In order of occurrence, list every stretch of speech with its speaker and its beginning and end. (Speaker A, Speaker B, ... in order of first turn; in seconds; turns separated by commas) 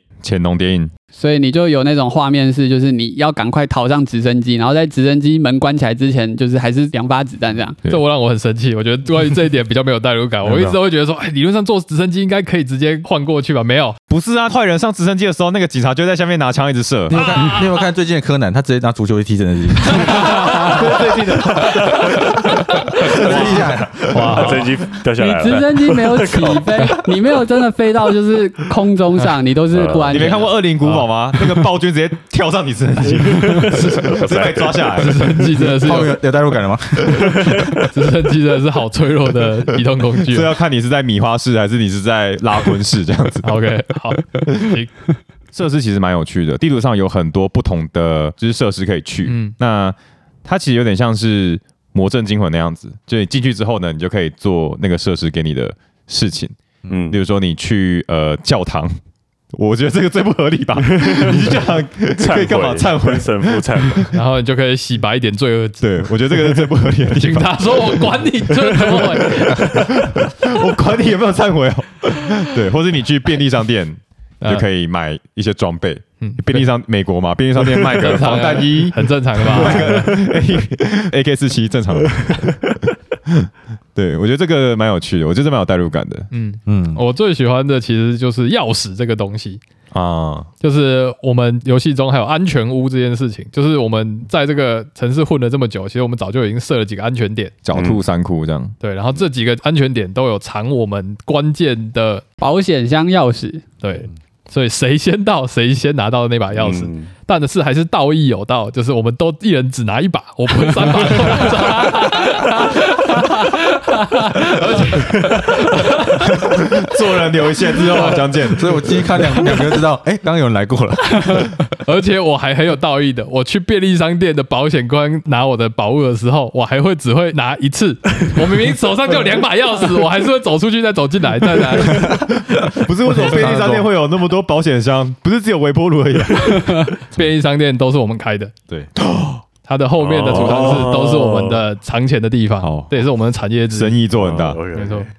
Speaker A: 0.2-0.9, Speaker B: 1.1-7.8, Speaker C: 7.8-14.0, Speaker A: 14.1-17.6, Speaker D: 17.1-20.7, Speaker C: 20.1-20.6, Speaker B: 20.6-21.6, Speaker A: 20.6-22.0, Speaker E: 21.9-22.2, Speaker D: 22.0-22.3, Speaker C: 22.8-23.1, Speaker D: 23.0-24.3, Speaker A: 23.0-23.5, Speaker E: 23.1-26.9, Speaker C: 24.1-24.7, Speaker B: 25.2-30.5, Speaker E: 29.7-30.2, Speaker A: 30.1-35.3, Speaker C: 30.8-31.1, Speaker E: 33.2-34.8, Speaker C: 33.4-33.9, Speaker C: 35.0-36.1, Speaker D: 35.5-37.8, Speaker C: 37.8-40.5, Speaker A: 40.2-43.5, Speaker C: 43.4-44.9, Speaker A: 44.4-44.8, Speaker A: 45.5-56.6, Speaker C: 49.2-49.5, Speaker E: 56.9-57.2, Speaker A: 57.1-58.9, Speaker A: 59.5-64.2, Speaker E: 60.8-64.1, Speaker C: 64.1-66.4, Speaker A: 65.8-68.2, Speaker C: 67.2-70.0, Speaker E: 68.5-69.6, Speaker A: 69.6-82.7, Speaker C: 74.4-74.7, Speaker C: 76.2-76.7, Speaker C: 78.0-80.1, Speaker A: 83.3-86.3, Speaker C: 86.3-89.6, Speaker D: 86.7-87.0, Speaker A: 89.9-90.5, Speaker C: 90.6-97.5, Speaker A: 97.6-98.7, Speaker E: 97.7-98.0, Speaker C: 98.8-102.2, Speaker B: 102.4-103.7, Speaker C: 103.8-116.5, Speaker E: 106.5-107.1, Speaker A: 116.3-119.0, Speaker D: 118.5-121.6, Speaker C: 121.2-132.2, Speaker D: 131.8-133.9, Speaker A: 131.9-136.9, Speaker C: 137.1-138.5, Speaker A: 139.0-139.4, Speaker C: 139.6-144.0, Speaker E: 140.0-141.6, Speaker A: 140.3-141.1, Speaker A: 142.6-143.0, Speaker A: 143.7-144.6, Speaker E: 144.1-145.1, Speaker C: 144.7-145.1